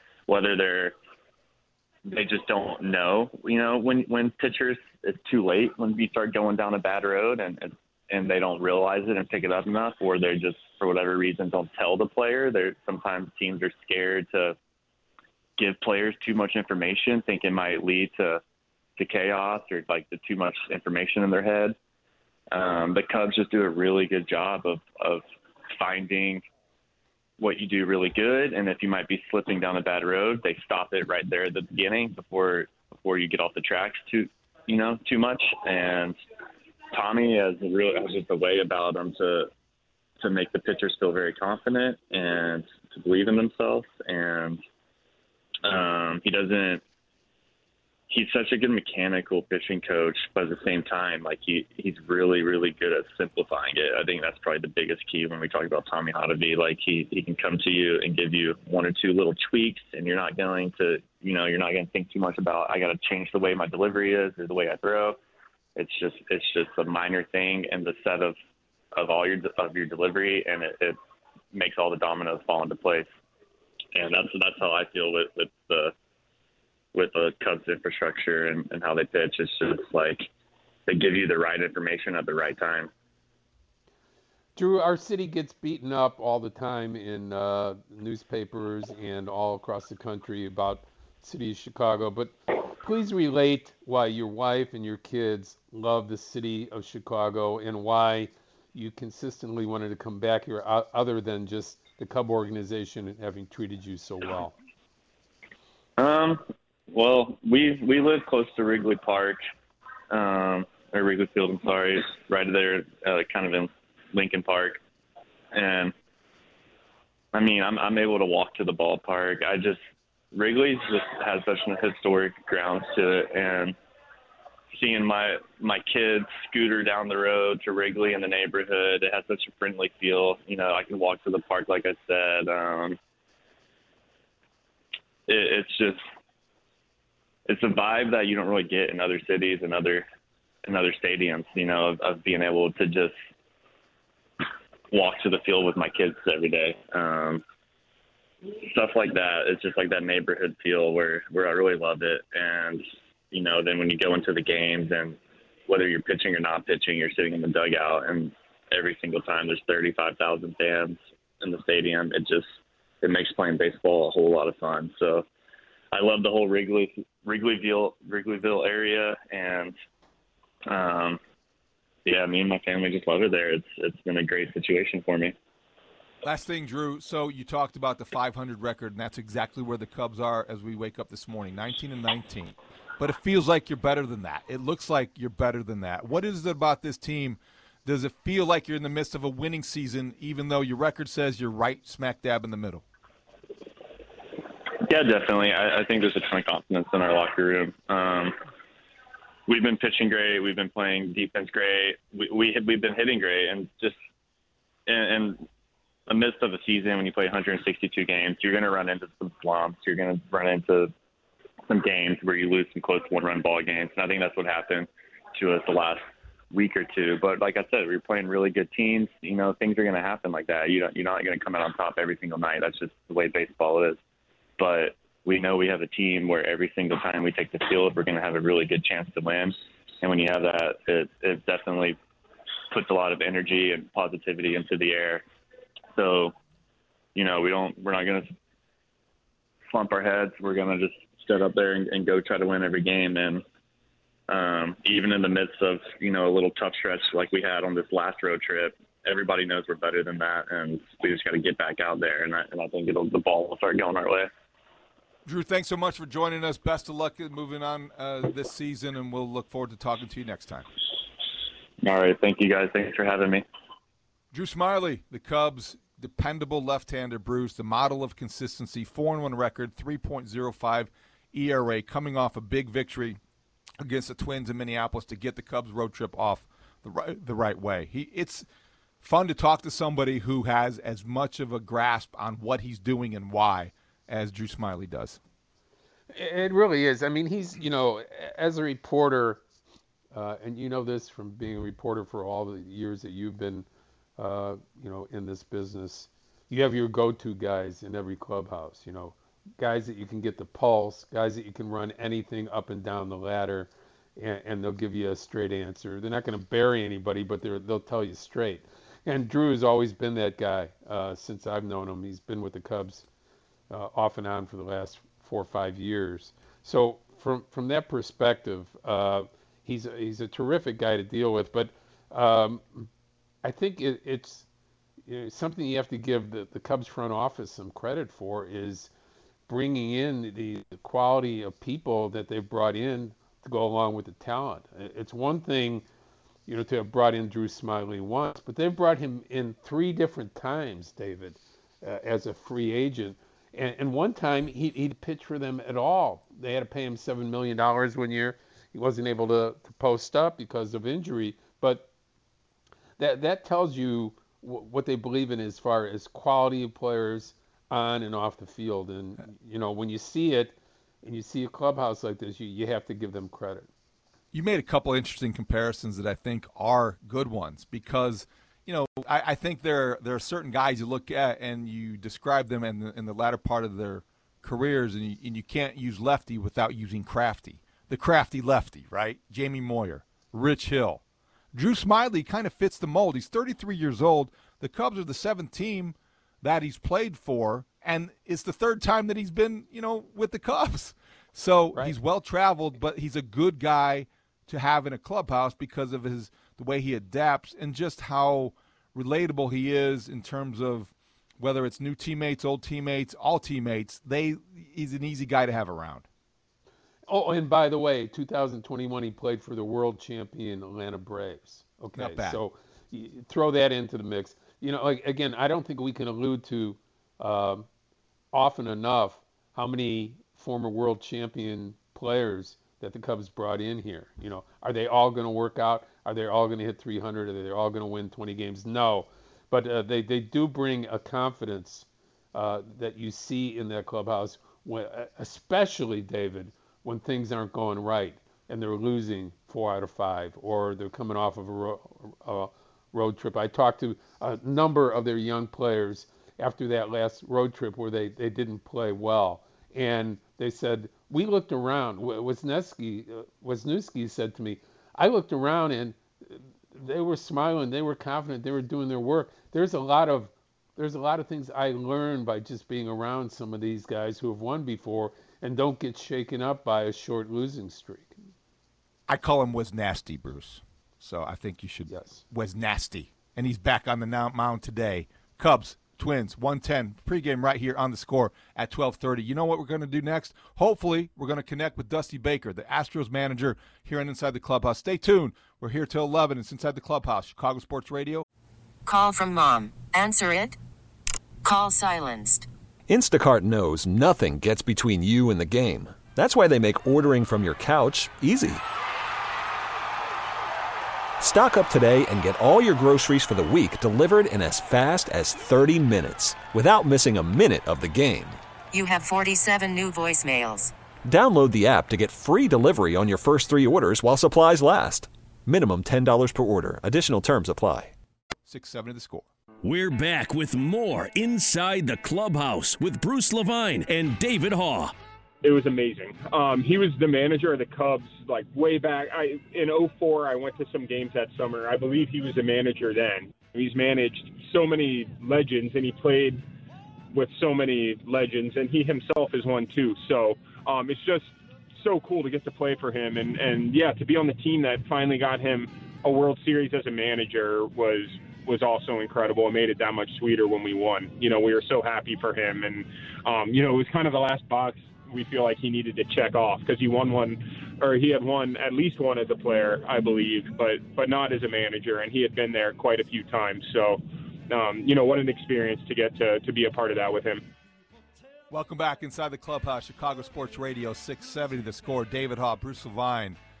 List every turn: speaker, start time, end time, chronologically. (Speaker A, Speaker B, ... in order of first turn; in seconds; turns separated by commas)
Speaker A: 0.3-0.9, Speaker A: 2.0-14.6, Speaker A: 15.6-18.4, Speaker A: 19.0-21.8, Speaker A: 22.5-26.4, Speaker A: 27.4-36.1, Speaker A: 36.9-39.5, Speaker A: 40.2-44.6, Speaker A: 45.6-46.8, Speaker A: 48.1-65.2, Speaker A: 65.8-68.3, Speaker A: 68.9-71.0, Speaker A: 71.5-73.1, Speaker A: 73.9-75.9, Speaker A: 76.9-80.3, Speaker A: 80.9-82.9, Speaker B: 84.5-104.5, Speaker A: 106.0-109.4, Speaker A: 110.1-114.8, Speaker A: 115.5-115.9, Speaker A: 117.3-119.8, Speaker A: 120.3-123.8, Speaker A: 124.7-133.0, Speaker A: 135.3-136.0, Speaker A: 137.5-140.1, Speaker A: 140.6-143.2, Speaker A: 144.9-147.4, Speaker A: 148.5-162.5, Speaker A: 163.0-165.2, Speaker A: 165.9-169.8, Speaker A: 170.7-171.2, Speaker A: 172.1-175.3, Speaker C: 176.2-192.8, Speaker A: 194.8-198.3, Speaker A: 199.5-204.0, Speaker A: 204.9-205.4, Speaker A: 206.1-210.9, Speaker A: 211.7-224.0, Speaker A: 224.6-232.0, Speaker A: 232.7-235.2, Speaker A: 235.9-236.3, Speaker A: 237.1-238.3, Speaker A: 239.7-243.4, Speaker A: 244.3-254.3, Speaker C: 255.2-260.7, Speaker A: 261.8-263.4, Speaker C: 264.3-273.2, Speaker C: 273.8-278.4, Speaker C: 279.0-285.2, Speaker B: 286.1-289.4, Speaker B: 290.1-293.7, Speaker B: 294.2-313.1, Speaker B: 313.7-322.9, Speaker B: 323.4-324.5, Speaker B: 325.1-328.9, Speaker B: 329.5-335.8, Speaker B: 336.5-351.9, Speaker B: 353.0-363.7, Speaker C: 364.3-381.0, Speaker C: 381.5-406.1, Speaker B: 407.1-417.7, Speaker C: 411.9-412.4, Speaker B: 418.3-468.1, Speaker C: 469.1-488.2, Speaker B: 471.9-472.2, Speaker D: 488.9-490.6, Speaker D: 491.4-492.5, Speaker E: 492.9-498.6, Speaker E: 501.2-508.4, Speaker D: 508.7-510.7, Speaker E: 511.0-517.9, Speaker C: 518.5-519.3, Speaker F: 519.6-524.9, Speaker G: 525.4-536.4, Speaker G: 537.1-567.4, Speaker C: 568.5-573.4